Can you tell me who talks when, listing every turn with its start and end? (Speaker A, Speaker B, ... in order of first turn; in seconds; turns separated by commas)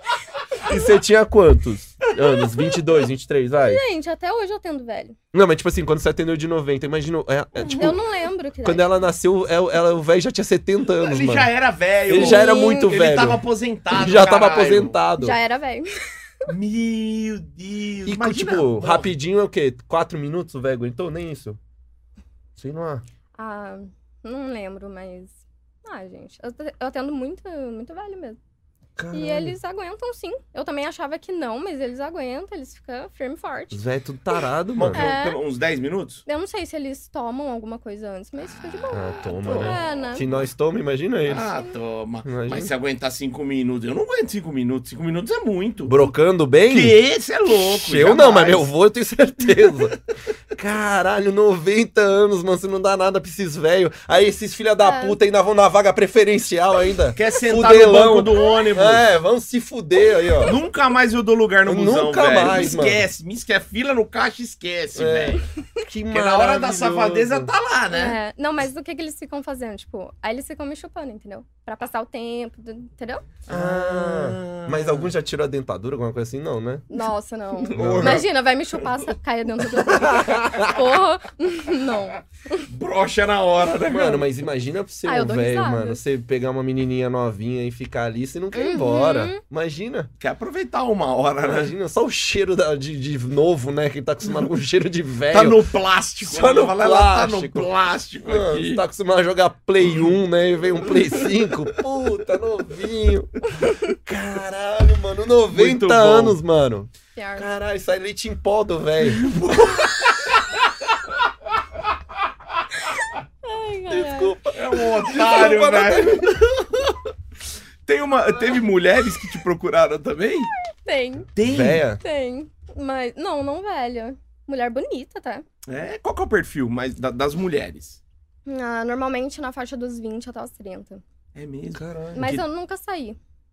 Speaker A: 0.6-3.8, Speaker B: 3.6-5.2, Speaker A: 5.3-8.0, Speaker B: 7.7-8.9, Speaker A: 8.6-11.5, Speaker C: 11.0-15.0, Speaker A: 12.1-15.4, Speaker B: 12.1-13.0, Speaker B: 15.2-16.5, Speaker C: 16.5-19.1, Speaker A: 18.1-21.6, Speaker A: 22.6-23.0, Speaker B: 23.4-28.4, Speaker A: 29.0-29.6, Speaker B: 29.1-33.8, Speaker A: 33.7-35.1, Speaker C: 34.8-36.2, Speaker B: 34.9-35.4, Speaker B: 36.3-40.2, Speaker C: 38.4-40.5, Speaker A: 38.9-41.5, Speaker C: 41.3-46.1, Speaker B: 41.3-41.8, Speaker A: 42.2-42.7, Speaker A: 45.9-47.0, Speaker C: 46.7-48.7, Speaker A: 47.5-50.0, Speaker A: 50.5-60.6, Speaker B: 54.8-55.2, Speaker C: 57.1-59.1, Speaker C: 60.4-65.4, Speaker A: 61.7-63.1, Speaker A: 65.0-67.5, Speaker C: 66.1-68.2, Speaker B: 67.9-73.3, Speaker C: 73.5-75.1, Speaker A: 73.5-76.9, Speaker B: 76.9-82.7, Speaker C: 77.6-78.3, Speaker A: 77.7-78.3, Speaker A: 79.8-80.9, Speaker C: 82.7-84.3, Speaker A: 83.9-90.1, Speaker B: 85.0-86.0, Speaker B: 88.5-89.4, Speaker C: 90.2-91.7, Speaker A: 91.4-95.6, Speaker C: 95.3-98.8, Speaker A: 96.2-97.7, Speaker A: 98.2-109.8, Speaker C: 100.9-101.3, Speaker C: 105.5-106.4, Speaker B: 107.2-107.5, Speaker C: 109.1-110.6, Speaker B: 113.4-114.4, Speaker A: 113.9-117.0, Speaker C: 114.5-116.4, Speaker C: 117.8-120.5, Speaker B: 120.8-121.3, Speaker C: 121.3-121.8, Speaker A: 121.4-122.0, Speaker B: 122.0-125.5, Speaker C: 125.7-128.0, Speaker B: 128.5-131.0, Speaker C: 131.3-132.4, Speaker A: 131.8-132.4, Speaker B: 132.2-133.2